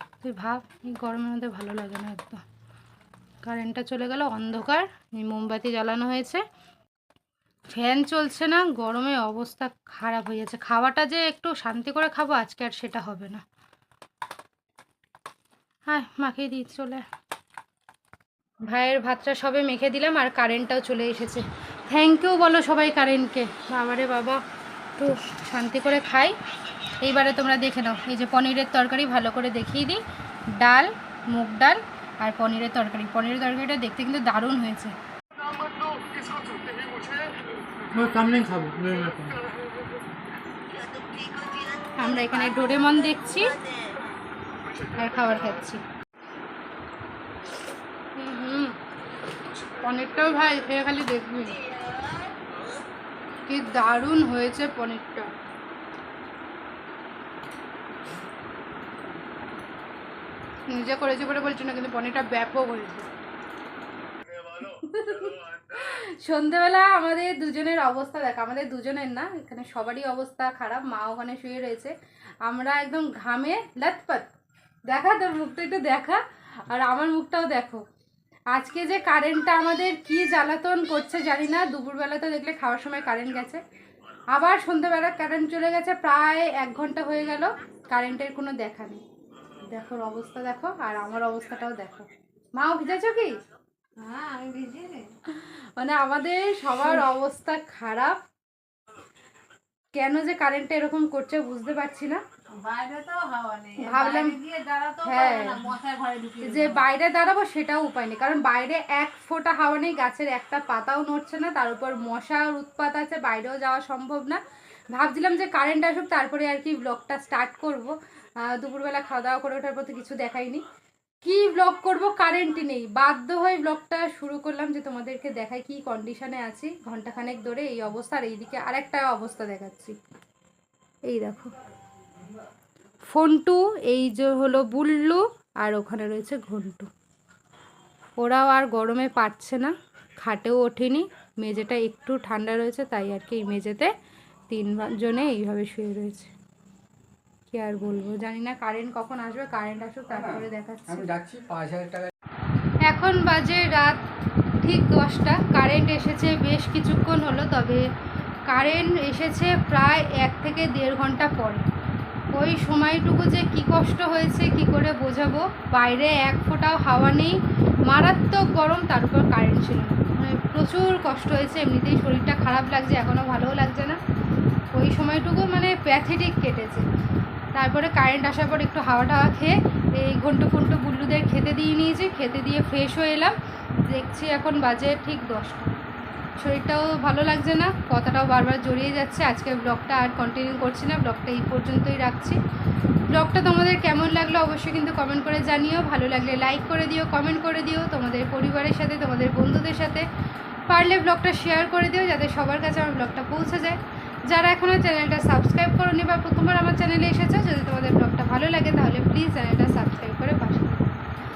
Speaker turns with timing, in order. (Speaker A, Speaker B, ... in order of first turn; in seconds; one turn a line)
Speaker A: 0.2-2.4
Speaker A: 3.4-6.4
Speaker A: 7.7-13.4
Speaker A: 15.9-17.0
Speaker A: 18.7-24.4
Speaker A: 25.0-26.4
Speaker A: 27.0-34.9
Speaker B: 37.9-39.4
Speaker A: 42.0-43.6
Speaker A: 44.8-45.8
Speaker A: 48.1-48.8
Speaker A: 49.8-51.6
Speaker A: 53.5-55.3
Speaker A: 60.7-63.1
Speaker A: 64.5-74.3
Speaker A: 74.9-77.8
Speaker A: 78.5-83.6
Speaker A: 84.3-89.0
Speaker A: 89.6-93.4
Speaker C: 94.0-95.1
Speaker A: 95.2-98.2
Speaker A: 99.9-102.2
Speaker C: 102.5-106.8
Speaker A: 103.8-104.4
Speaker A: 105.0-105.7
Speaker A: 106.4-114.4
Speaker A: 114.9-120.6
Speaker A: 121.2-130.0
Speaker A: 131.1-131.5
Speaker A: 133.0-136.9
Speaker A: 138.2-143.9
Speaker A: 144.5-146.3
Speaker A: 147.5-151.1
Speaker B: 150.2-150.4
Speaker B: 150.9-152.1
Speaker A: 152.8-154.0
Speaker A: 154.6-157.9
Speaker A: 158.5-161.7
Speaker A: 162.3-174.0
Speaker A: 174.7-176.9
Speaker A: 177.5-185.8
Speaker A: 186.4-192.4
Speaker A: 193.1-200.1
Speaker A: 200.7-210.9